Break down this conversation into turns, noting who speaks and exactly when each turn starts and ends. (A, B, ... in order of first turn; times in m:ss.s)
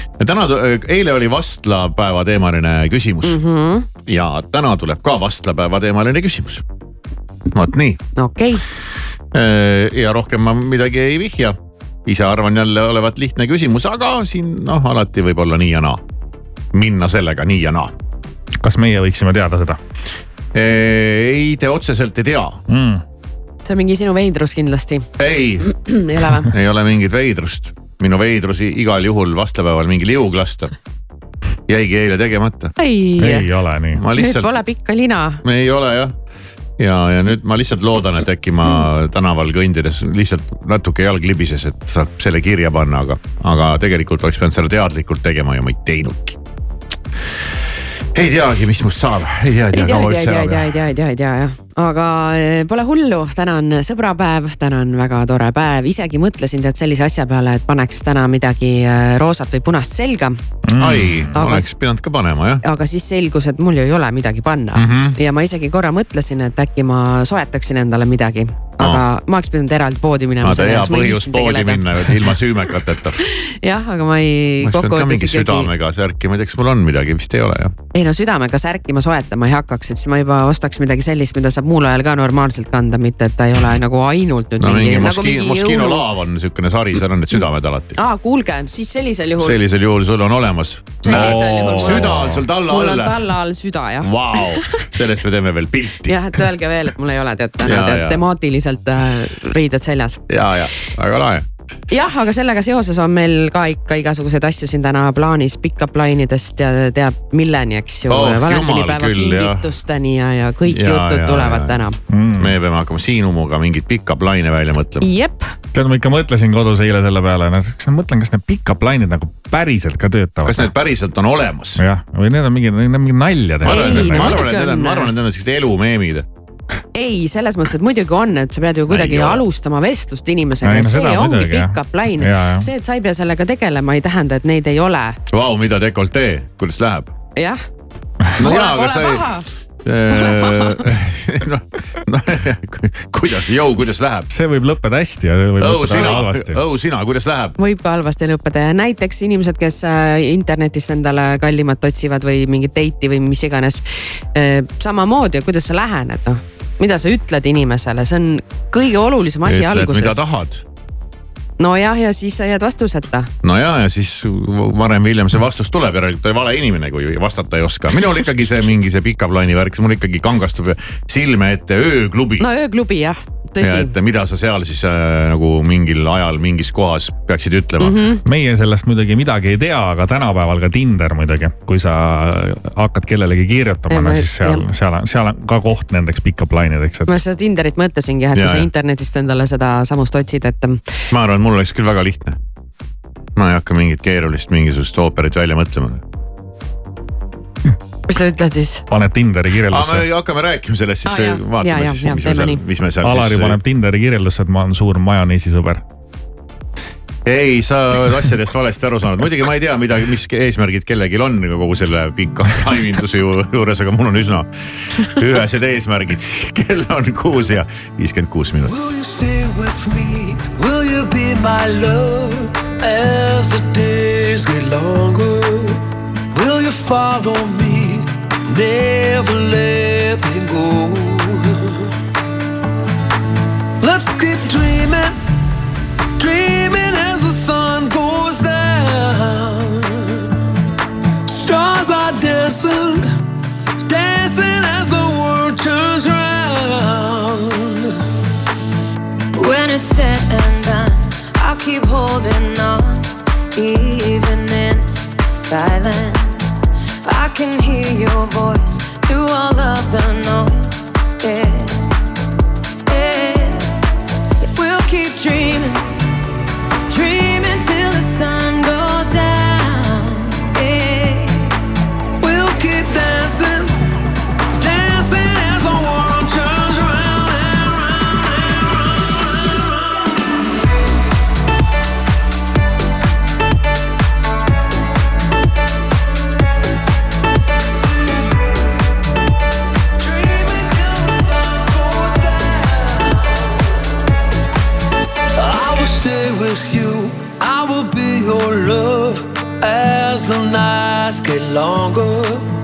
0:00.2-0:03.4 A
0:03.2-0:03.9 B
0:04.0-0:06.6 A
0:07.5-0:08.0 A
0:08.2-0:08.6 B
0:09.3-0:16.0 A
0:16.7-0:17.9 A
0:18.6-0:19.8 C
0:20.5-0:22.6 A
0:22.7-0:23.0 C
0:23.6-0:25.1 B
0:25.2-0:30.7 A
0:25.7-0:26.5 B
0:31.7-0:32.7 A
0:32.8-0:33.5 B
0:33.2-0:34.0 C
0:34.0-0:34.6 A
0:34.1-0:35.4 B
0:35.4-0:36.1 A
0:36.8-0:46.4 A
0:48.1-0:50.8 A
0:49.7-1:00.4 B
1:00.7-1:01.2 C
1:00.8-1:02.6 A
1:01.3-1:01.7 B
1:02.6-1:12.0 B
1:04.7-1:05.2 A
1:08.8-1:09.0 A
1:10.4-1:13.2 A
1:13.2-1:15.7 B
1:14.6-1:17.7 A
1:17.9-1:26.0 B
1:24.6-1:28.0 A
1:28.0-1:29.6 B
1:29.4-1:33.2 A
1:31.0-1:34.8 B
1:31.0-1:32.1 C
1:34.0-1:36.2 A
1:36.1-1:40.2 B
1:37.6-1:38.2 A
1:40.3-1:41.4 A
1:41.9-1:52.0 B
1:48.1-1:49.7 A
1:50.7-1:51.8 A
1:52.1-1:52.5 C
1:52.4-1:55.1 A
1:55.0-1:55.5 B
1:55.7-2:00.7 C
2:00.4-2:01.8 A
2:01.8-2:04.4 C
2:03.6-2:06.2 A
2:03.6-2:05.1 B
2:06.9-2:15.2 B
2:08.9-2:09.4 A
2:10.6-2:12.7 C
2:15.3-2:17.1 A
2:18.4-2:19.3 A
2:18.4-2:19.4 B
2:19.8-2:24.3 A
2:20.1-2:20.8 B
2:24.3-2:26.6 C
2:25.6-2:27.6 A
2:27.6-2:40.2 B
2:39.4-2:40.6 A
2:41.6-2:43.3 B
2:43.4-2:52.4 A
2:52.4-2:53.9 B
2:53.6-2:58.1 A
2:57.8-2:58.2 B
2:58.2-3:07.2 C
3:03.9-3:04.6 B
3:07.1-3:10.9 B
3:08.3-3:08.7 A
3:11.1-3:12.4 A
3:13.4-3:16.0 A
3:18.1-3:18.8 B
3:18.9-3:20.0 C
3:19.7-3:23.6 A
3:21.0-3:22.6 B
3:23.0-3:25.8 C
3:27.2-3:38.9 A
3:38.7-3:45.8 D
3:46.3-3:51.7 D
3:53.8-3:55.2 D
3:56.2-4:00.1 D
4:01.3-4:03.0 D
4:03.9-4:07.8 D
4:09.3-4:16.5 E
4:17.0-4:21.8 E
4:22.9-4:23.7 E
4:24.6-4:25.8 E
4:26.9-4:31.5 E
4:32.2-4:33.7 D
4:34.6-4:39.6 D
4:50.0-4:53.0 D
4:55.4-5:02.4 D